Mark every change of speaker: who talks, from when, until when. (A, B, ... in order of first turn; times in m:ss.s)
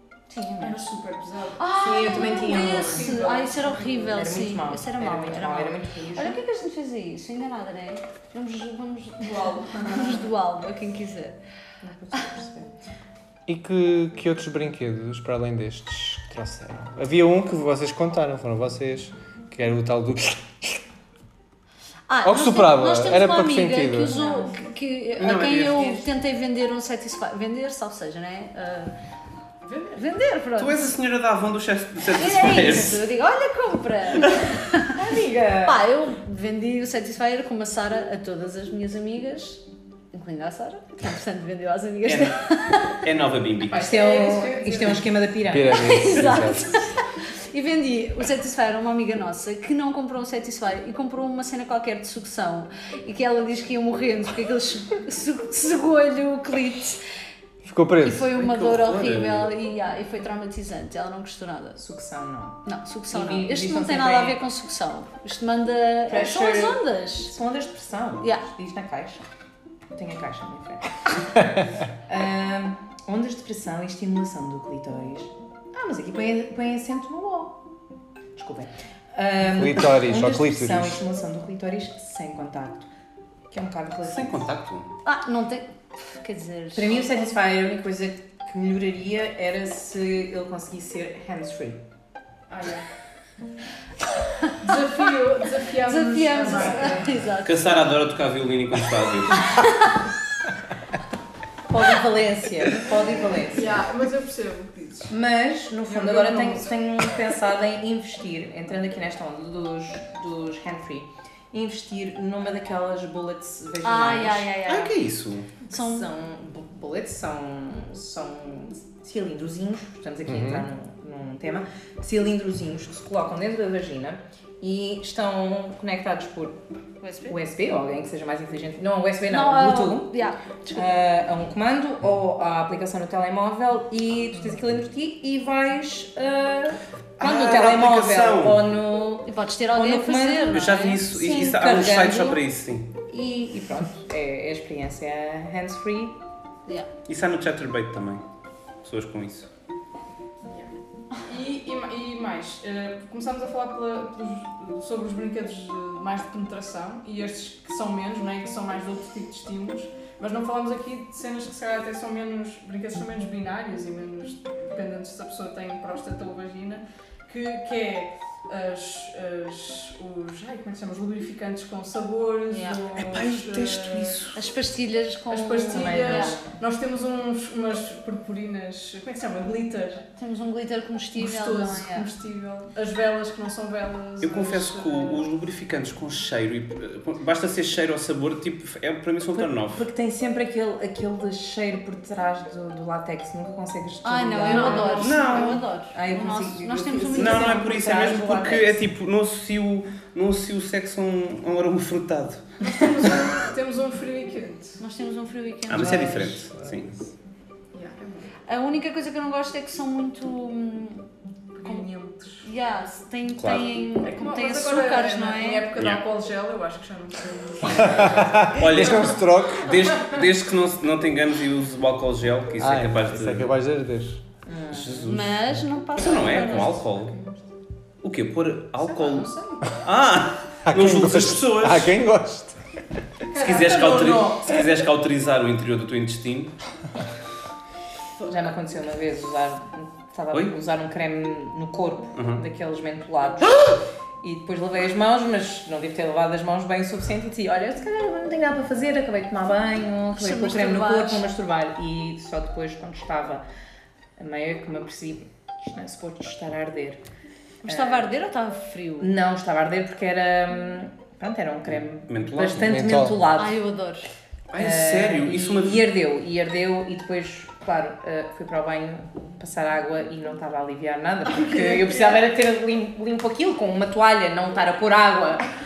0:00.3-0:00.8 A
0:00.6-0:04.2 B
0:01.6-0:11.4 A
0:01.7-0:03.1 C
0:04.0-0:06.4 C
0:09.2-0:10.3 B
0:11.8-0:12.8 C
0:13.5-0:20.8 D
0:22.1-0:28.9 A
0:22.2-0:24.2 D
0:24.1-0:24.7 B
0:25.2-0:26.0 E
0:29.6-0:30.0 B
0:29.9-0:31.0 A
0:30.6-0:33.0 E
0:32.1-0:34.9 A
0:34.2-0:34.5 E
0:34.9-0:35.8 C
0:35.6-0:39.6 A
0:40.1-0:43.0 A
0:42.0-0:42.4 E
0:43.0-0:43.9 E
0:43.7-0:45.1 B
0:43.7-0:46.1 C
0:45.5-0:46.7 D
0:45.8-0:57.0 A
0:57.6-0:58.3 D
0:58.0-1:01.8 A
0:58.3-0:59.5 E
1:01.8-1:04.4 C
1:02.6-1:07.3 A
1:06.1-1:09.2 C
1:09.9-1:11.0 C
1:12.1-1:17.6 C
1:18.4-1:22.9 C
1:19.4-1:21.0 D
1:23.5-1:24.5 C
1:24.0-1:24.9 E
1:25.0-1:27.3 A
1:26.7-1:31.8 C
1:32.5-1:32.8 B
1:34.6-1:37.1 B
1:35.8-1:37.7 A
1:37.4-1:39.5 E
1:39.5-1:39.9 A
1:41.7-1:43.8 C
1:43.5-1:45.1 B
1:45.1-1:54.5 C
1:45.8-1:46.7 B
1:53.8-1:55.0 A
1:54.6-1:55.5 E
1:55.7-2:06.6 C
1:55.7-1:56.1 A
2:00.3-2:00.7 D
2:07.0-2:07.4 A
2:07.2-2:10.2 C
2:09.3-2:11.0 A
2:10.7-2:22.4 C
2:17.2-2:18.7 E
2:19.2-2:21.0 A
2:20.5-2:22.9 E
2:23.1-2:26.2 C
2:27.1-2:28.2 E
2:28.8-2:29.5 E
2:31.2-2:54.3 B
2:52.5-2:52.8 A
2:52.9-2:54.4 E
2:54.3-2:56.4 A
2:55.3-3:00.1 B
2:55.7-2:56.5 C
3:00.2-3:02.1 A
3:01.2-3:05.2 B
3:04.2-3:09.8 E
3:09.3-3:15.4 C
3:14.0-3:18.6 A
3:14.5-3:15.6 B
3:15.0-3:15.6 E
3:15.9-3:18.6 C
3:17.1-3:22.6 E
3:22.6-3:24.8 B
3:24.8-3:26.3 A
3:25.7-3:26.9 E
3:25.7-3:26.9 D
3:27.7-3:28.3 B
3:28.5-3:31.1 A
3:31.6-3:32.4 B
3:31.6-3:31.9 A
3:32.4-3:35.7 A
3:33.4-3:33.7 E
3:34.0-3:39.2 B
3:35.8-3:36.0 E
3:38.0-3:39.8 D
3:38.5-3:43.5 E
3:42.6-3:44.2 D
3:44.4-3:45.1 C
3:44.7-3:45.4 E
3:45.1-3:46.8 A
3:46.0-3:47.1 E
3:46.1-3:47.4 B
3:48.0-3:52.0 E
3:48.8-3:49.8 B
3:50.6-3:52.6 D
3:53.3-3:54.6 B
3:53.3-3:56.5 E
3:58.3-4:03.6 C
4:02.2-4:02.4 E
4:04.2-4:13.4 C
4:10.1-4:11.3 A
4:14.2-4:17.0 C
4:17.6-4:18.1 C
4:17.6-4:19.1 A
4:19.0-4:23.6 C
4:22.1-4:22.8 E
4:22.6-4:23.2 D
4:23.3-4:24.1 A
4:24.5-4:25.8 E
4:24.6-4:35.5 C
4:31.3-4:32.2 B